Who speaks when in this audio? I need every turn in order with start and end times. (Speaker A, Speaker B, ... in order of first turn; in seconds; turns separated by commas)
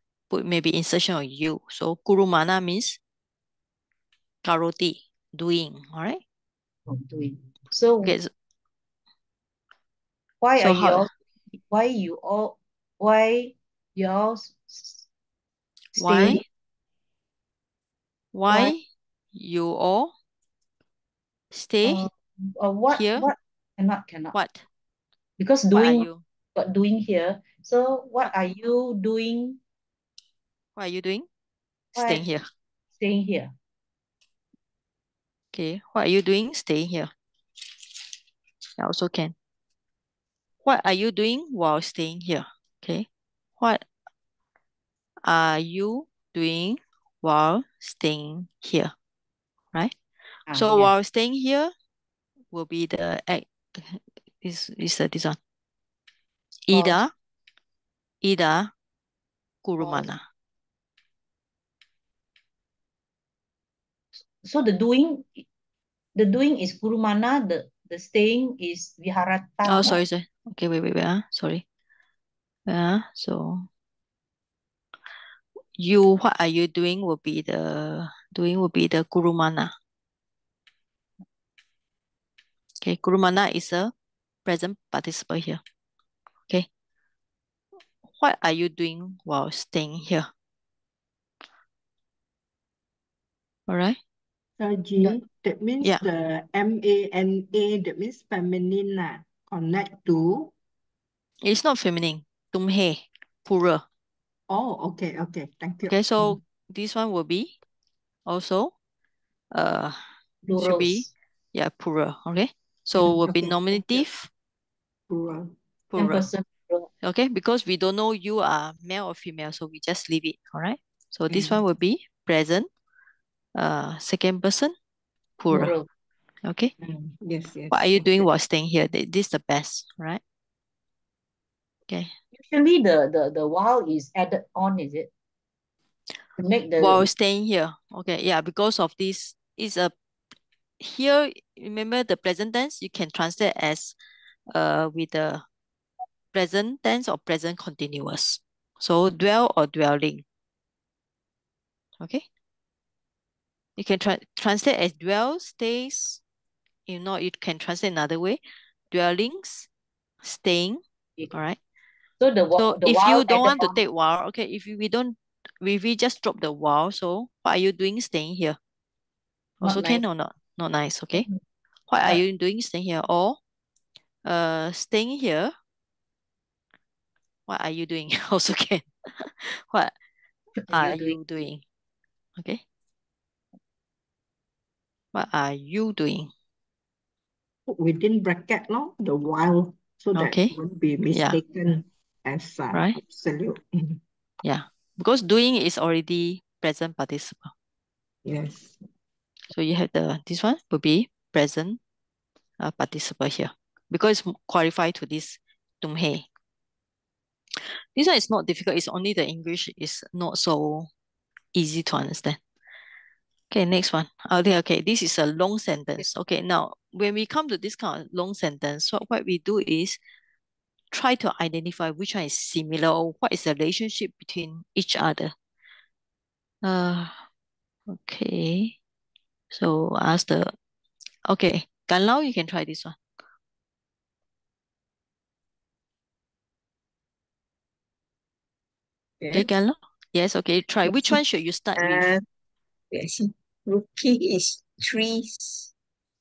Speaker A: 0.3-3.0, Speaker A: 4.4-6.2, Speaker B: 6.9-8.2, Speaker A: 8.0-8.3, Speaker B: 10.4-15.1, Speaker A: 10.6-11.1, Speaker A: 15.9-16.4, Speaker B: 15.9-16.4, Speaker A: 18.3-18.8, Speaker B: 18.5-18.7, Speaker A: 19.3-20.1, Speaker A: 21.5-22.1, Speaker B: 21.8-24.3, Speaker A: 22.9-23.3, Speaker A: 24.3-24.6, Speaker B: 25.4-29.6, Speaker A: 25.7-26.2, Speaker A: 30.8-31.2, Speaker B: 31.9-32.2, Speaker A: 31.9-32.4, Speaker B: 33.0-33.5, Speaker A: 35.5-37.1, Speaker A: 38.8-39.3, Speaker A: 40.6-43.0, Speaker A: 43.6-43.8, Speaker A: 45.2-48.9, Speaker B: 50.5-50.9, Speaker A: 50.5-51.7, Speaker A: 52.5-55.4, Speaker A: 56.7-57.1, Speaker B: 56.7-57.0, Speaker A: 58.2-58.7, Speaker A: 59.6-60.2, Speaker B: 59.8-60.1, Speaker B: 64.4-65.4, Speaker B: 66.2-70.0, Speaker A: 69.7-71.6, Speaker A: 72.7-73.7, Speaker A: 75.8-79.7, Speaker A: 82.8-83.9, Speaker A: 84.5-85.6, Speaker A: 88.2-90.3, Speaker A: 93.7-94.0, Speaker C: 94.6-100.5, Speaker A: 101.4-103.8, Speaker C: 104.5-106.4, Speaker A: 105.9-107.5, Speaker A: 108.3-108.7, Speaker A: 109.5-110.0, Speaker B: 110.4-111.1, Speaker A: 110.5-114.3, Speaker C: 113.0-113.8, Speaker C: 115.1-115.5, Speaker A: 115.9-116.3, Speaker B: 116.0-116.9, Speaker A: 117.0-122.7, Speaker A: 123.6-124.7, Speaker A: 125.4-125.8, Speaker B: 125.5-125.9, Speaker A: 126.4-126.7, Speaker C: 126.8-127.7, Speaker A: 127.7-130.2, Speaker D: 127.7-128.2, Speaker B: 132.3-135.1, Speaker B: 136.4-137.1, Speaker A: 136.8-139.9, Speaker A: 140.8-143.9, Speaker A: 144.5-145.4, Speaker A: 146.3-150.2, Speaker A: 153.8-156.2, Speaker A: 156.9-158.4, Speaker A: 158.9-159.7, Speaker A: 160.2-161.6, Speaker B: 162.2-163.8, Speaker A: 162.6-168.6, Speaker A: 169.6-171.2, Speaker B: 169.6-170.0, Speaker A: 171.9-173.4, Speaker A: 174.2-175.5, Speaker A: 177.5-179.9, Speaker B: 180.6-181.2, Speaker A: 180.7-181.6, Speaker A: 185.1-186.3, Speaker C: 187.7-193.6, Speaker A: 190.1-190.5, Speaker A: 191.1-191.4, Speaker A: 192.7-193.0, Speaker A: 194.4-197.5, Speaker C: 198.2-198.8, Speaker A: 199.5-201.8, Speaker A: 202.6-206.2, Speaker A: 207.9-210.9, Speaker A: 211.5-212.4, Speaker A: 213.5-220.0, Speaker A: 220.9-225.3, Speaker A: 226.6-227.1, Speaker A: 227.9-228.7, Speaker A: 229.5-230.5, Speaker A: 231.3-233.0, Speaker D: 239.2-239.5, Speaker A: 239.3-242.1, Speaker D: 240.9-241.2, Speaker D: 241.8-242.2, Speaker D: 242.9-245.7